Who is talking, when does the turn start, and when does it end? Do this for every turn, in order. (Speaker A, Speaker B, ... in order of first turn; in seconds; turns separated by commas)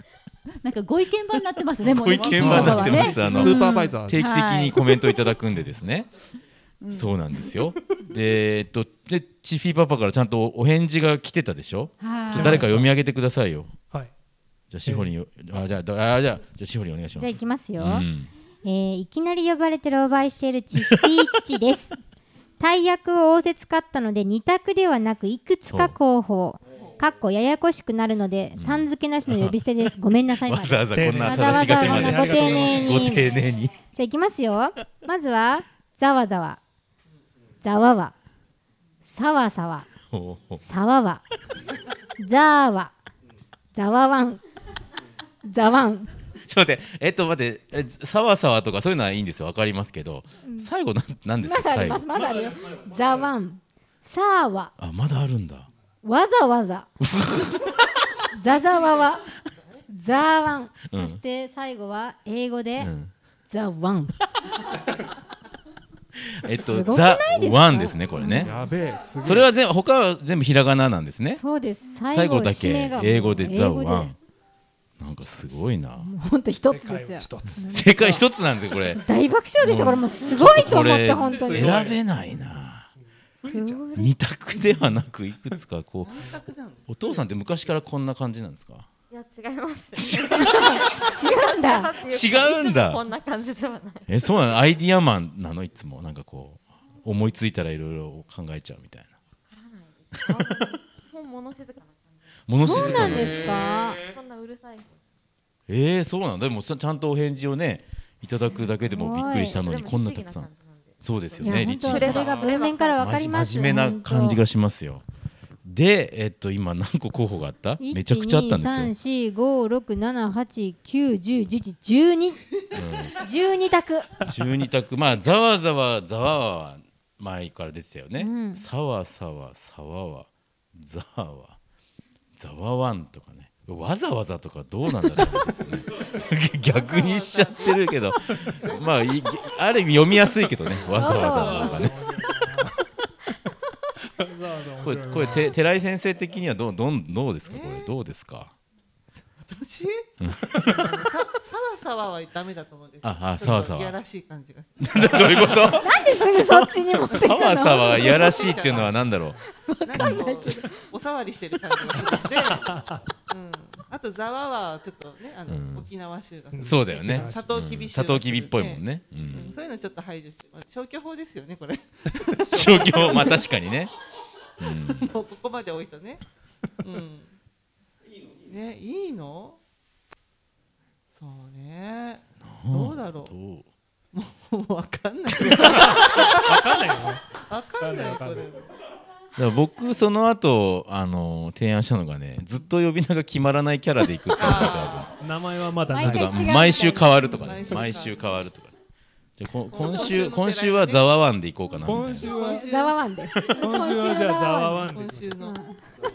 Speaker A: 0.6-5.3, Speaker B: 1.8-3.9, Speaker C: 1.9-6.1, Speaker D: 3.2-4.2, Speaker A: 6.8-7.6, Speaker C: 6.9-13.7, Speaker A: 12.0-12.8, Speaker B: 12.3-12.9, Speaker C: 14.7-18.3, Speaker B: 14.8-15.1, Speaker E: 17.2-18.1, Speaker E: 18.6-21.9, Speaker E: 22.6-33.2, Speaker C: 25.7-25.9, Speaker C: 28.6-33.8, Speaker B: 30.9-33.1, Speaker F: 32.4-32.7, Speaker E: 33.9-36.6, Speaker E: 37.6-38.1, Speaker E: 39.0-39.9, Speaker C: 40.1-40.6, Speaker E: 40.6-41.2, Speaker E: 42.2-42.9, Speaker E: 43.7-44.4, Speaker E: 45.4-46.1, Speaker C: 46.4-52.1, Speaker E: 50.4-50.7, Speaker E: 51.4-54.7, Speaker B: 52.2-52.9, Speaker C: 54.8-55.7, Speaker E: 56.0-56.9, Speaker C: 57.0-58.0, Speaker E: 58.3-59.2, Speaker F: 59.6-59.8, Speaker E: 59.9-62.9, Speaker C: 60.9-61.2, Speaker C: 62.8-63.1, Speaker E: 63.5-64.1, Speaker C: 66.3-68.6, Speaker E: 66.6-68.6, Speaker D: 68.4-69.5, Speaker C: 69.2-71.4, Speaker E: 71.3-74.1, Speaker C: 72.1-74.1, Speaker C: 75.0-76.1, Speaker E: 76.0-77.8, Speaker B: 76.6-78.2, Speaker C: 77.7-79.0, Speaker E: 79.0-81.8, Speaker C: 79.6-82.9, Speaker B: 81.2-82.0, Speaker B: 83.0-83.9, Speaker E: 83.4-84.1, Speaker C: 83.9-86.2, Speaker F: 86.0-87.3, Speaker C: 86.9-88.9, Speaker G: 89.1-94.1, Speaker C: 90.0-90.7, Speaker E: 90.4-91.9, Speaker C: 92.0-93.0, Speaker C: 94.1-99.1, Speaker G: 99.5-105.0, Speaker C: 102.5-103.7, Speaker E: 102.5-104.0, Speaker C: 105.7-110.5, Speaker E: 108.2-109.6, Speaker G: 109.2-113.3, Speaker C: 111.0-112.3, Speaker E: 111.4-114.4, Speaker C: 113.0-115.0, Speaker C: 115.6-118.9, Speaker E: 117.8-122.4, Speaker C: 122.7-123.2, Speaker E: 123.2-124.1, Speaker C: 124.2-131.6, Speaker E: 128.2-128.6, Speaker C: 132.3-141.9, Speaker F: 136.7-139.4, Speaker B: 140.8-142.8, Speaker E: 140.9-141.9, Speaker B: 144.2-145.5, Speaker C: 144.8-148.5, Speaker F: 147.4-147.9, Speaker F: 149.2-150.1, Speaker C: 150.2-150.8, Speaker F: 150.6-155.8, Speaker C: 153.0-154.0, Speaker C: 154.8-159.4, Speaker E: 155.8-158.5, Speaker F: 157.1-159.0, Speaker E: 159.7-160.7, Speaker F: 159.8-162.7, Speaker B: 161.9-163.0, Speaker F: 163.3-173.5, Speaker C: 165.5-165.9, Speaker B: 166.5-167.5, Speaker C: 166.6-169.5, Speaker C: 172.5-173.9, Speaker B: 172.6-173.2, Speaker C: 174.6-175.1, Speaker F: 174.9-176.2, Speaker F: 176.8-177.3, Speaker F: 178.4-179.6, Speaker F: 181.1-183.3, Speaker C: 182.4-183.7, Speaker F: 184.1-188.7, Speaker B: 185.6-187.2, Speaker B: 187.8-188.4, Speaker C: 189.3-195.1, Speaker F: 194.3-195.1, Speaker B: 195.1-196.5, Speaker E: 195.9-197.2, Speaker C: 195.9-198.7, Speaker F: 196.7-198.4, Speaker C: 199.4-202.3, Speaker F: 199.7-201.1, Speaker B: 201.8-202.7, Speaker F: 201.9-203.5, Speaker E: 202.5-204.8, Speaker C: 203.3-203.6, Speaker B: 203.5-205.4, Speaker F: 204.7-205.6, Speaker E: 205.4-205.8